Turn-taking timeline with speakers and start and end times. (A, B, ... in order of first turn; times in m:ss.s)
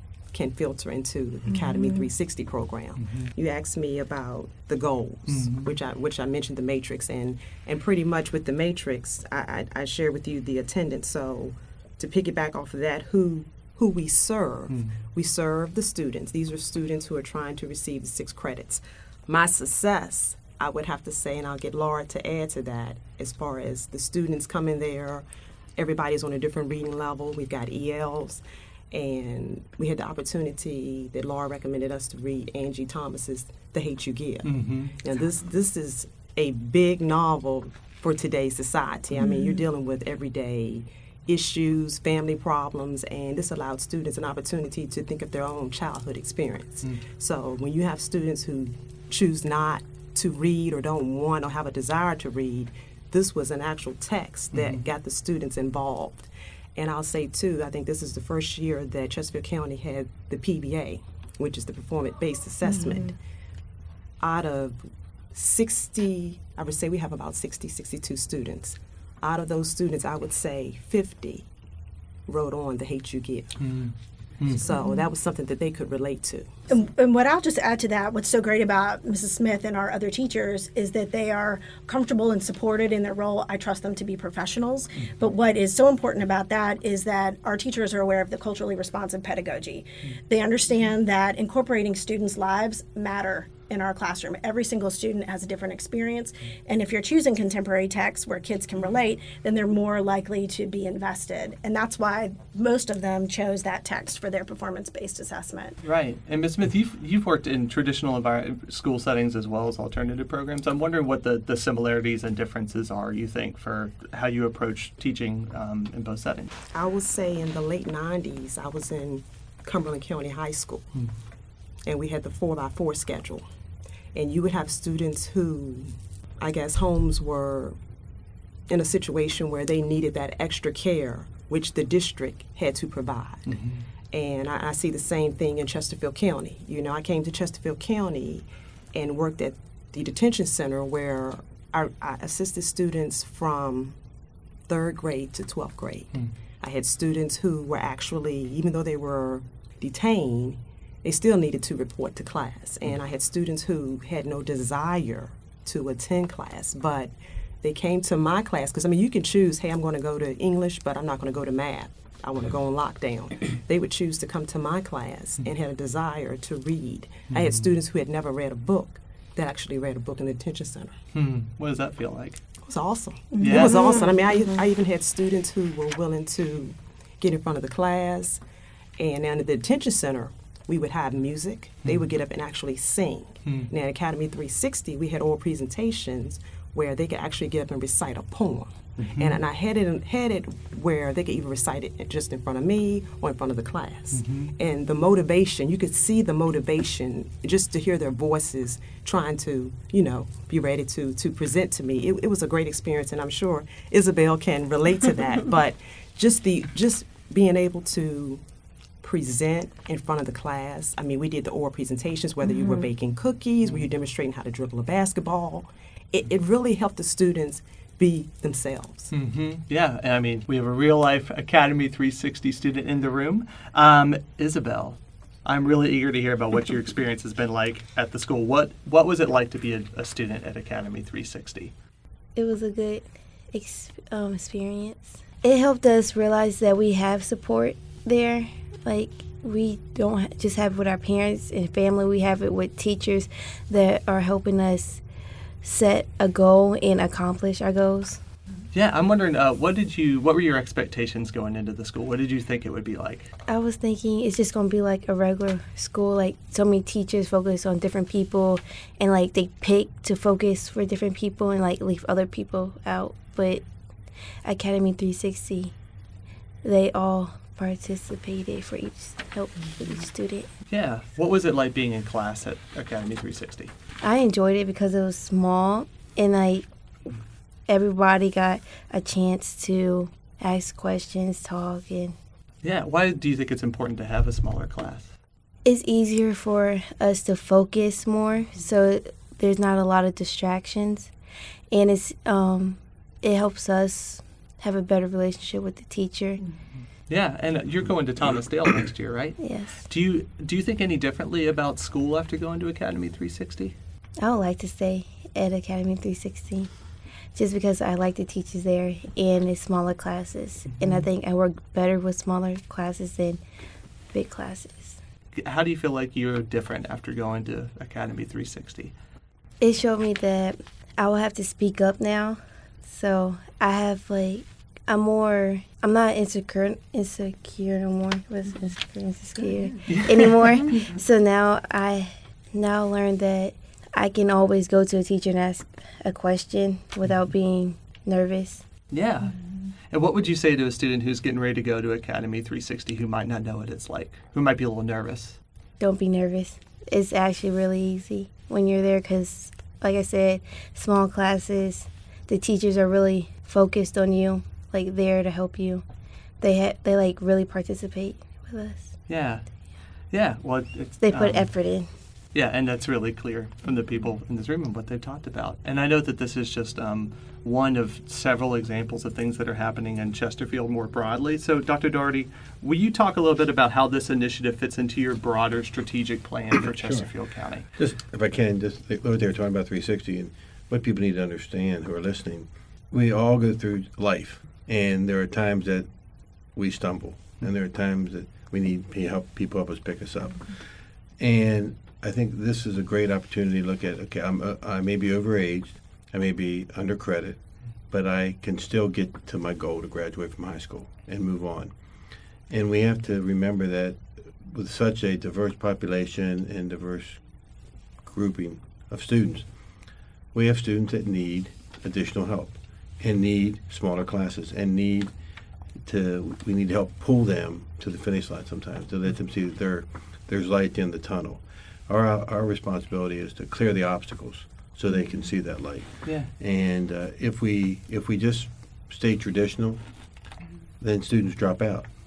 0:00.3-0:25.2 A
0:01.5-0:02.0 B
0:03.0-0:03.3 C
0:05.3-0:05.7 C
0:14.7-0:15.0 C
0:25.8-1:03.2 A
0:34.4-0:35.0 C
0:39.2-0:39.6 B
0:54.5-0:54.8 C
1:02.6-1:03.1 B
1:04.2-1:04.8 A
1:05.3-1:11.5 A
1:12.3-1:13.6 A
1:13.6-1:14.6 C
1:14.5-1:16.6 A
1:14.7-1:15.0 B
1:16.7-1:45.8 B
1:45.8-1:56.5 C
1:56.7-2:01.0 A
2:01.8-2:03.5 A
2:04.1-2:07.8 A
2:08.7-2:13.5 A
2:13.5-2:13.8 C
2:14.1-2:24.0 A
2:24.7-2:37.1 A
2:37.6-2:51.0 A
2:47.3-2:47.7 C
2:51.1-2:52.4 C
2:52.6-2:58.4 A
2:53.3-2:54.4 B
2:53.4-2:54.1 C
2:59.0-3:28.4 A
3:09.0-3:09.4 C
3:14.1-3:14.5 C
3:29.0-3:39.1 A
3:32.4-3:32.8 B
3:39.1-3:51.7 C
3:52.4-4:05.0 D
4:05.6-4:08.2 D
4:08.7-4:13.3 C
4:13.5-4:23.6 D
4:24.4-4:25.7 D
4:26.6-4:30.5 D
4:30.7-4:33.7 C
4:34.0-4:42.2 D
4:42.6-4:45.2 C
4:45.6-4:51.1 D
4:51.7-4:56.4 D
4:57.1-5:03.8 C
4:59.4-4:59.8 D
5:04.2-5:06.7 D
5:07.3-5:13.4 D
5:10.7-5:11.0 C
5:14.1-5:15.0 D
5:15.3-5:18.9 C
5:19.6-5:38.6 D
5:29.9-5:30.3 C
5:38.9-5:39.4 C
5:39.9-5:45.4 C
5:45.8-5:55.8 D
5:56.4-5:58.9 D
5:59.1-5:59.4 C
6:00.1-6:01.5 C
6:01.0-6:01.9 D
6:02.3-6:17.7 C
6:16.6-6:17.1 E
6:17.7-6:25.9 E
6:26.5-6:30.6 E
6:31.2-6:41.7 E
6:42.5-6:47.2 E
6:48.0-6:49.5 E
6:50.3-6:55.1 E
6:55.8-7:09.8 E
7:06.0-7:06.3 C
7:10.8-7:11.9 E